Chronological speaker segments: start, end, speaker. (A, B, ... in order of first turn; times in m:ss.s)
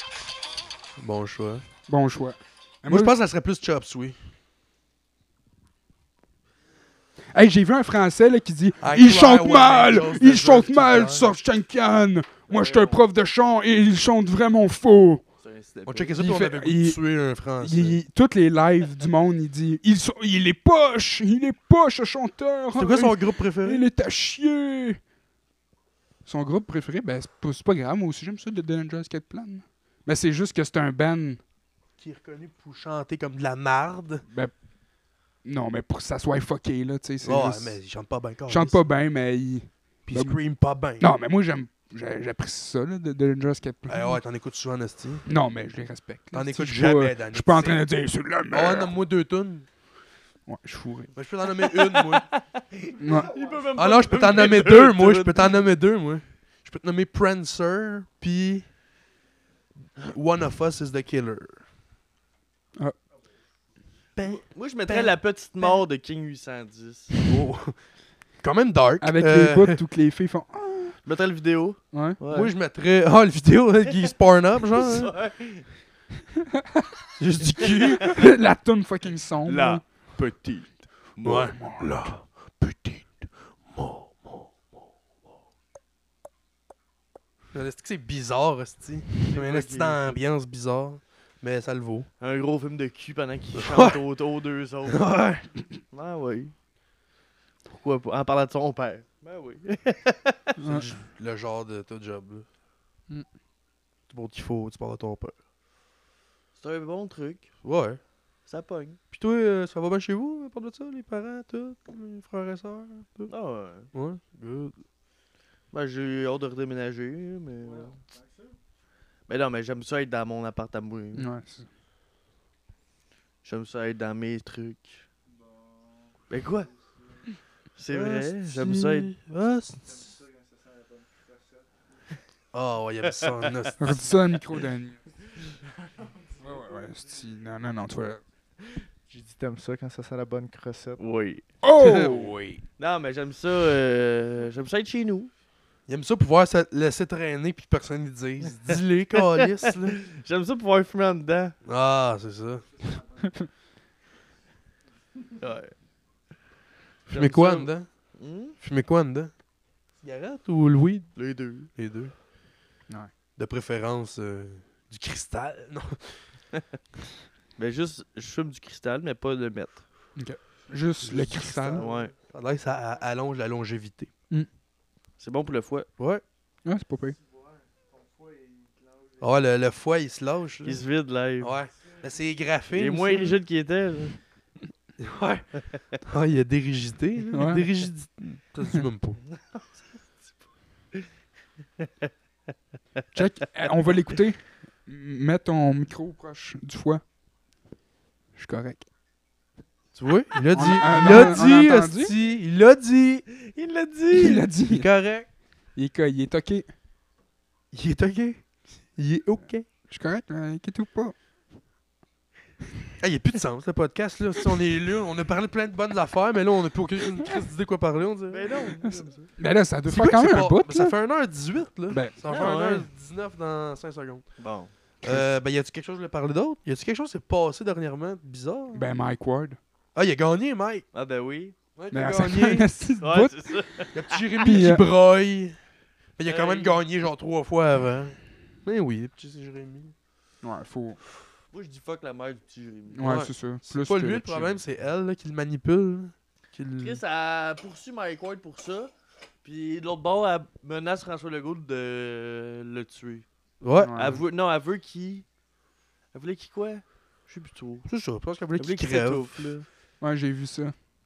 0:01.0-0:01.6 A
0:01.9-0:03.1 B
0:02.9-0:04.2 A
0:07.3-0:15.2 B
0:08.8-0:11.4 A
0:12.5-0:13.0 C
0:15.4-0:16.2 C
0:15.9-0:18.0 A
0:16.2-0:17.0 B
0:17.6-0:25.0 B
0:22.8-0:23.8 A
0:26.3-0:31.4 B
0:32.0-0:34.2 A
0:34.3-0:34.5 B
0:35.4-0:37.8 B
0:37.2-0:38.8 A
0:38.5-0:40.4 B
0:40.1-0:41.1 A
0:41.0-0:44.2 B
0:43.9-0:45.3 A
0:45.3-0:48.9 B
0:46.3-0:47.9 A
0:48.5-0:49.7 A
0:50.5-0:51.1 B
0:51.2-0:52.3 A
0:51.5-0:55.6 C
0:53.0-0:53.3 B
0:53.0-0:53.7 D
0:53.7-0:58.7 A
1:00.0-1:01.6 A
1:04.2-1:05.2 A
1:04.2-1:07.3 C
1:07.3-1:07.8 A
1:08.4-1:09.8 A
1:09.0-1:11.0 B
1:11.0-1:12.5 C
1:11.9-1:12.2 B
1:12.3-1:15.1 A
1:14.7-1:15.6 C
1:17.2-1:18.2 A
1:18.0-1:19.8 B
1:19.5-1:21.6 C
1:21.2-1:24.5 A
1:21.5-1:22.1 B
1:27.5-1:32.1 A
1:29.2-1:30.2 C
1:32.2-1:35.1 C
1:33.5-1:34.0 A
1:34.9-1:35.5 A
1:35.9-1:36.5 C
1:37.7-1:40.6 C
1:40.6-1:40.8 B
1:40.6-1:42.5 A
1:44.1-1:45.4 A
1:46.6-1:47.5 C
1:47.6-1:48.0 A
1:48.5-1:49.0 C
1:49.1-1:53.3 A
1:53.3-1:53.9 C
1:53.9-1:54.8 A
1:55.7-1:58.0 C
1:57.6-1:58.6 D
1:59.3-2:01.3 C
2:01.2-2:01.7 B
2:03.4-2:05.0 C
2:05.3-2:06.2 D
2:06.3-2:06.7 C
2:07.8-2:09.1 C
2:07.9-2:10.2 A
2:09.8-2:12.1 D
2:12.5-2:13.9 A
2:13.1-2:13.7 C
2:13.8-2:15.1 B
2:15.8-2:17.0 D
2:16.4-2:18.2 B
2:19.1-2:21.0 D
2:21.0-2:21.5 C
2:21.6-2:22.4 B
2:21.8-2:22.6 A
2:22.8-2:25.3 C
2:25.9-2:30.0 A
2:28.7-2:31.6 C
2:31.6-2:33.0 A
2:32.8-2:33.2 D
2:35.4-2:35.7 C
2:37.1-2:38.6 C
2:37.1-2:39.3 A
2:40.0-2:41.1 A
2:41.2-2:41.7 C
2:41.7-2:42.1 A
2:43.4-2:46.3 A
2:47.6-2:49.8 C
2:50.2-2:51.8 B
2:51.0-2:54.1 A
2:51.6-2:52.2 C
2:55.2-2:55.9 C
2:56.0-2:56.2 A
2:56.6-2:57.2 B
2:57.1-2:59.4 D
2:59.2-3:00.8 A
3:00.6-3:01.6 C
3:01.4-3:03.4 A
3:02.7-3:04.2 C
3:05.0-3:09.2 A
3:05.7-3:06.0 C
3:07.3-3:07.7 B
3:09.3-3:10.3 C
3:11.8-3:12.1 C
3:13.1-3:17.0 B
3:18.4-3:18.9 B
3:20.0-3:23.3 A
3:20.5-3:22.1 B
3:21.0-3:21.4 C
3:23.3-3:24.5 C
3:24.1-3:24.9 B
3:24.7-3:25.3 A
3:25.8-3:26.7 B
3:27.7-3:29.7 A
3:29.9-3:31.2 B
3:33.0-3:38.5 A
3:38.3-3:39.3 C
3:38.8-3:41.0 B
3:39.9-3:44.3 A
3:41.9-3:42.2 B
3:42.3-3:42.9 C
3:44.4-3:44.7 C
3:45.0-3:48.9 A
3:48.7-3:49.6 B
3:50.0-3:50.8 A
3:50.9-3:51.6 C
3:51.8-3:52.8 A
3:51.9-3:53.4 B
3:53.0-3:54.3 C
3:53.9-3:55.6 A
3:54.4-3:54.8 B
3:56.2-3:59.9 A
3:56.2-3:56.8 C
4:00.4-4:01.0 B
4:01.5-4:03.2 C
4:02.9-4:04.6 B
4:03.0-4:07.0 A
4:06.8-4:08.9 C
4:09.4-4:13.3 C
4:13.6-4:14.1 A
4:13.8-4:14.2 B
4:13.9-4:15.2 C
4:16.1-4:17.9 C
4:17.9-4:19.5 A
4:18.6-4:19.7 C
4:20.0-4:20.8 B